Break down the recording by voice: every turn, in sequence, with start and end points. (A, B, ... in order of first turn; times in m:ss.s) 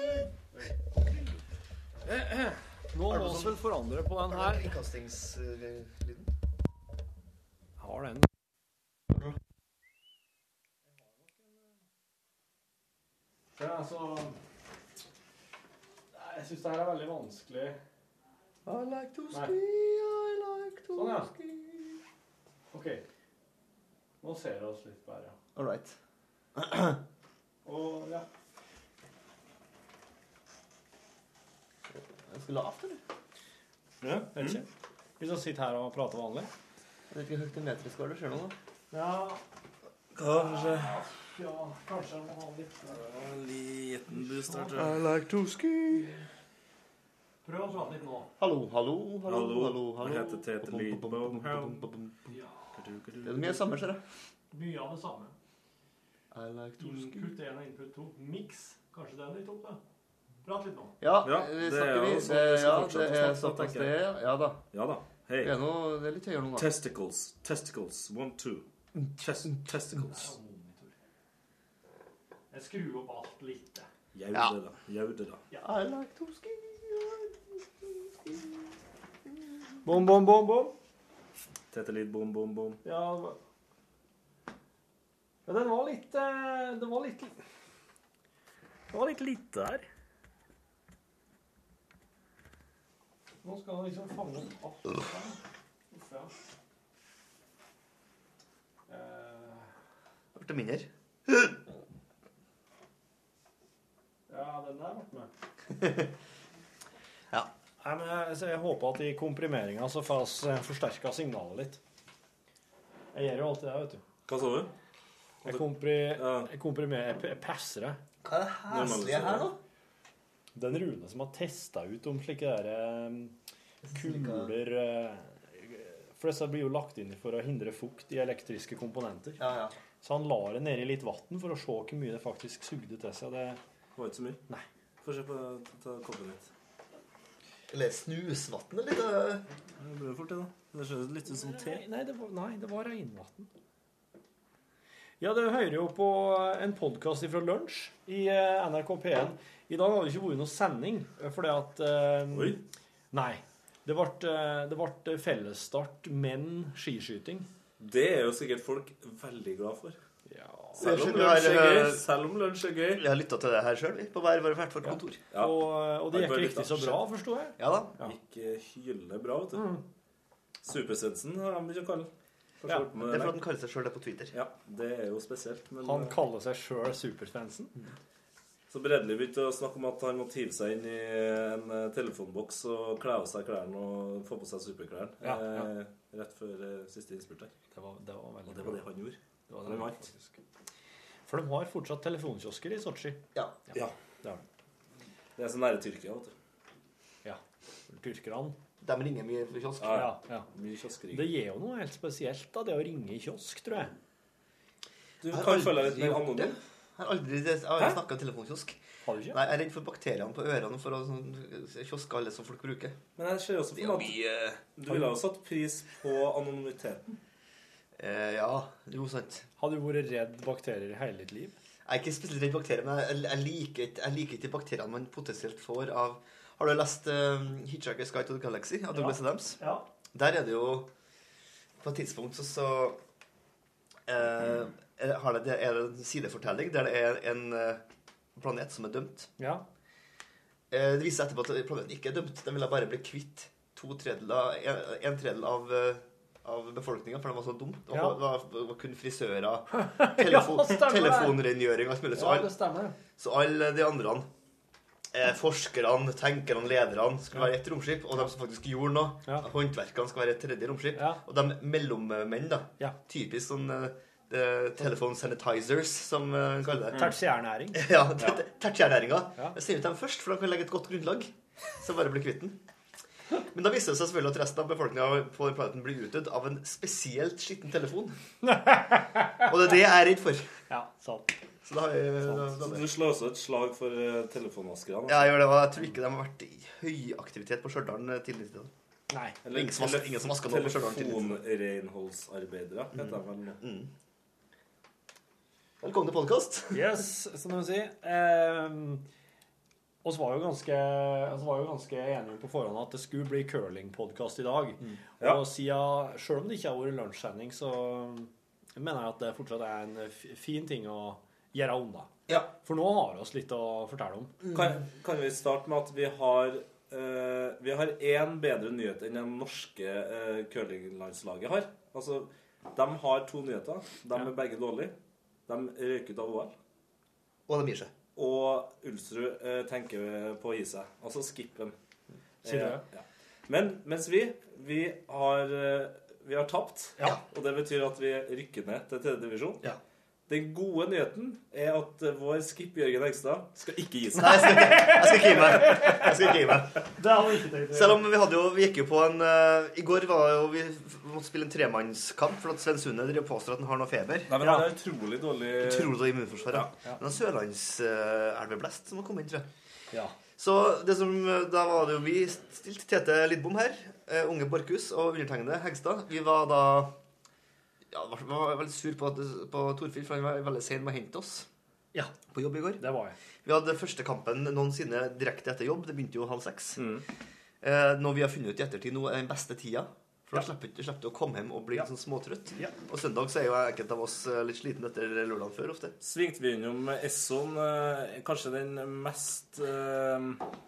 0:02.0-0:04.7 A
0:03.1-0:03.6 B
0:04.3-0:06.3 B
0:07.8-0:08.3 A
0:09.1-0:09.4 B
0:13.6-0:14.4 A
0:16.1-0:17.8 A
0:18.6-0:22.0 B
0:20.9-0:21.3 A
0:22.7-0:23.0 A
0:24.2-0:25.3 A
0:25.6-0:26.0 B
0:26.6-0:27.0 B
0:27.6-0:28.2 A
0:31.9-0:33.0 B
0:34.0-0:34.6 A
0:34.0-0:34.6 C
0:35.2-0:36.5 A
0:37.1-0:38.5 B
0:38.9-0:39.4 A
0:40.1-0:41.0 C
0:40.2-0:43.0 A
0:42.9-0:45.0 C
0:44.1-0:44.8 A
0:44.7-0:46.2 B
0:47.4-0:48.3 A
0:48.4-0:52.4 B
0:49.2-0:51.8 C
0:52.3-0:52.6 A
0:52.8-0:53.8 C
0:53.2-0:54.0 B
0:54.5-0:55.3 A
0:56.3-0:57.3 B
0:56.8-0:59.8 A
1:00.4-1:01.0 A
1:01.0-1:04.6 B
1:01.2-1:04.0 C
1:04.7-1:05.5 C
1:05.4-1:06.7 B
1:06.6-1:08.6 C
1:08.9-1:10.1 B
1:09.3-1:10.0 C
1:09.9-1:10.9 A
1:12.5-1:13.9 A
1:14.1-1:15.4 C
1:15.5-1:18.7 B
1:19.8-1:20.7 A
1:21.7-1:22.8 C
1:22.8-1:23.4 A
1:25.4-1:27.4 A
1:28.9-1:29.8 A
1:33.4-1:35.4 A
1:35.9-1:36.3 A
1:38.9-1:39.7 A
1:40.3-1:41.6 B
1:44.3-1:45.3 A
1:45.8-1:46.0 B
1:47.8-1:51.8 A
1:53.1-1:54.0 A
1:54.3-1:54.7 C
1:55.4-1:58.0 A
1:56.1-1:56.5 C
1:58.2-1:59.6 B
1:58.7-1:59.5 C
2:00.5-2:03.3 A
2:03.8-2:04.5 B
2:03.9-2:09.4 A
2:09.4-2:09.8 B
2:10.0-2:13.6 A
2:14.0-2:14.4 C
2:15.0-2:16.5 C
2:17.7-2:19.4 B
2:19.8-2:21.8 C
2:21.3-2:23.5 A
2:25.2-2:32.6 A
2:32.3-2:32.6 C
2:33.1-2:37.5 A
2:37.8-2:40.0 C
2:40.3-2:40.8 A
2:40.7-2:43.0 C
2:40.8-2:42.0 B
2:43.0-2:45.2 B
2:45.3-2:47.0 C
2:45.4-2:48.1 A
2:47.6-2:48.0 B
2:48.0-2:49.8 C
2:49.5-2:49.8 A
2:50.6-2:52.1 C
2:52.6-2:53.3 C
2:53.0-2:54.3 B
2:54.3-2:56.2 C
2:55.8-2:57.8 A
2:58.7-3:07.5 C
3:05.2-3:05.7 A
3:07.7-3:08.8 A
3:08.5-3:10.0 C
3:09.5-3:10.4 A
3:11.3-3:13.2 A
3:15.4-3:16.3 C
3:17.2-3:18.6 A
3:18.8-3:20.1 B
3:19.8-3:21.3 C
3:19.9-3:20.5 A
3:21.1-3:23.9 A
3:25.2-3:26.6 C
3:25.3-3:28.8 B
3:29.0-3:29.4 A
3:29.3-3:33.0 B
3:33.2-3:34.2 C
3:33.8-3:34.6 B
3:34.8-3:37.0 C
3:34.9-3:35.1 A
3:38.0-3:39.4 B
3:39.6-3:41.5 A
3:41.8-3:49.6 B
3:48.9-3:49.8 A
3:50.1-3:50.9 B
3:51.8-3:53.0 B
3:54.1-3:57.8 B
3:58.4-3:59.3 B
3:59.4-3:59.6 A
4:00.7-4:12.5 B
4:07.9-4:08.2 A
4:09.7-4:11.4 A
4:12.1-4:13.0 A
4:13.2-4:14.3 B
4:15.1-4:27.1 B
4:20.9-4:21.2 A
4:26.9-4:27.8 A
4:27.7-4:32.6 B
4:33.3-4:38.2 B
4:38.4-4:39.5 A
4:39.4-4:40.4 B
4:40.7-4:41.3 A
4:41.6-4:42.9 B
4:42.6-4:45.3 C
4:45.1-4:48.7 B
4:49.1-4:49.4 A
4:49.4-4:53.6 C
4:49.5-4:51.4 B
4:52.9-4:53.9 B
4:55.8-4:56.8 B
4:56.7-4:59.0 A
5:00.0-5:14.4 A
5:14.5-5:24.9 C
5:25.5-5:26.5 C
5:27.5-5:27.9 B
5:28.2-5:31.7 C
5:32.4-5:39.6 C
5:32.4-5:32.8 A
5:40.3-5:44.8 C
5:44.2-5:46.8 B
5:44.4-5:46.1 A
5:47.0-5:48.0 A
5:47.7-5:54.3 B
5:54.3-5:56.0 C
5:54.4-5:54.7 A
5:55.6-5:59.5 B
6:00.4-6:06.9 B
6:07.9-6:11.5 B
6:12.3-6:12.8 B
6:12.8-6:13.1 A
6:13.4-6:16.8 B
6:16.8-6:17.0 C
6:17.6-6:25.9 B
6:26.0-6:30.4 C